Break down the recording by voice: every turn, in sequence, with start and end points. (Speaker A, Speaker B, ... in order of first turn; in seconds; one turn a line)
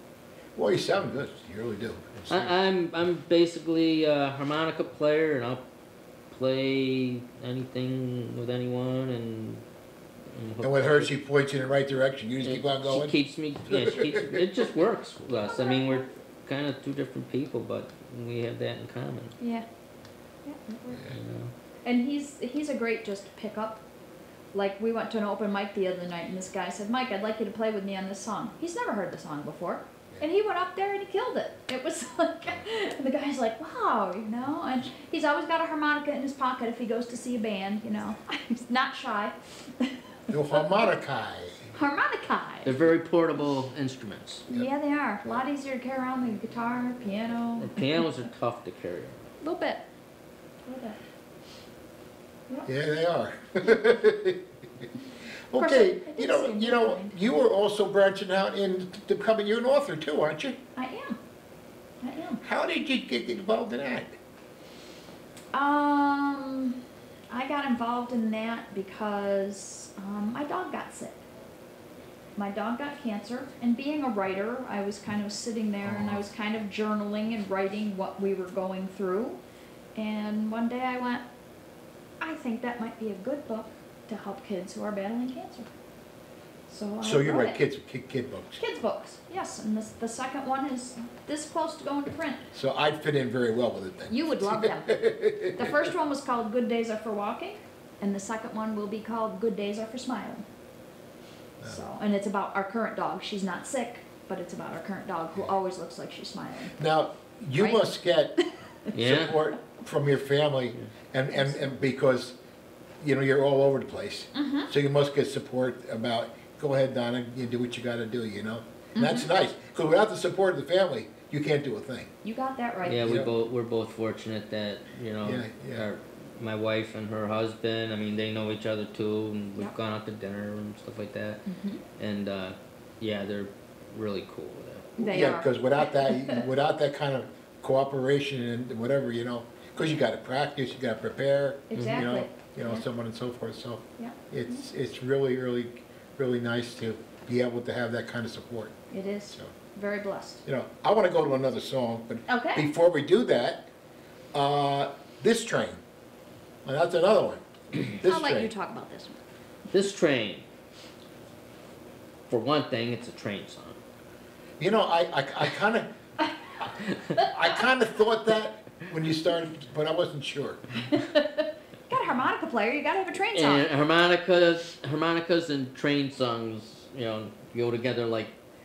Speaker A: 0.6-2.5
Speaker B: 2.3-5.6
Speaker B: 6.3-9.6
Speaker B: 10.3-11.1
Speaker A: 10.6-13.2
Speaker B: 12.4-19.4
Speaker A: 13.7-14.5
Speaker C: 15.4-16.1
Speaker C: 19.4-19.7
Speaker C: 20.4-21.1
Speaker B: 21.1-21.5
Speaker C: 21.9-23.8
Speaker C: 24.5-40.0
Speaker A: 40.3-41.6
Speaker C: 41.7-42.7
Speaker B: 42.6-44.5
Speaker C: 44.5-48.1
Speaker B: 47.6-49.3
Speaker C: 49.4-49.8
Speaker C: 50.7-51.0
Speaker A: 52.7-54.5
Speaker A: 55.5-60.6
Speaker C: 55.6-57.2
Speaker C: 60.8-61.2
Speaker C: 62.0-62.4
Speaker A: 62.4-64.2
Speaker C: 65.5-71.2
Speaker C: 72.4-79.4
Speaker A: 75.8-76.3
Speaker C: 80.0-81.2
Speaker C: 82.2-85.7
Speaker C: 86.7-87.6
Speaker A: 87.0-88.6
Speaker C: 88.6-92.5
Speaker A: 92.5-95.9
Speaker C: 94.1-100.4
Speaker C: 101.6-106.8
Speaker A: 106.8-108.3
Speaker C: 107.6-107.9
Speaker B: 108.9-109.4
Speaker A: 108.9-112.4
Speaker C: 111.3-111.7
Speaker A: 113.0-122.1
Speaker C: 114.3-114.7
Speaker C: 119.0-119.3
Speaker C: 122.2-123.2
Speaker B: 122.8-131.4
Speaker A: 123.0-123.3
Speaker A: 125.2-125.9
Speaker C: 131.5-131.8
Speaker B: 132.0-135.0
Speaker C: 135.0-136.4
Speaker A: 135.0-148.8
Speaker C: 141.7-142.8
Speaker B: 141.8-142.0
Speaker C: 144.0-144.6
Speaker C: 148.9-150.4
Speaker A: 150.4-153.7
Speaker C: 152.3-152.7
Speaker A: 154.3-155.8
Speaker A: 156.7-158.5
Speaker C: 158.0-159.2
Speaker B: 159.7-160.5
Speaker B: 162.3-163.8
Speaker A: 164.6-165.9
Speaker B: 166.8-167.2
Speaker A: 167.3-170.9
Speaker C: 170.9-173.7
Speaker B: 173.3-178.3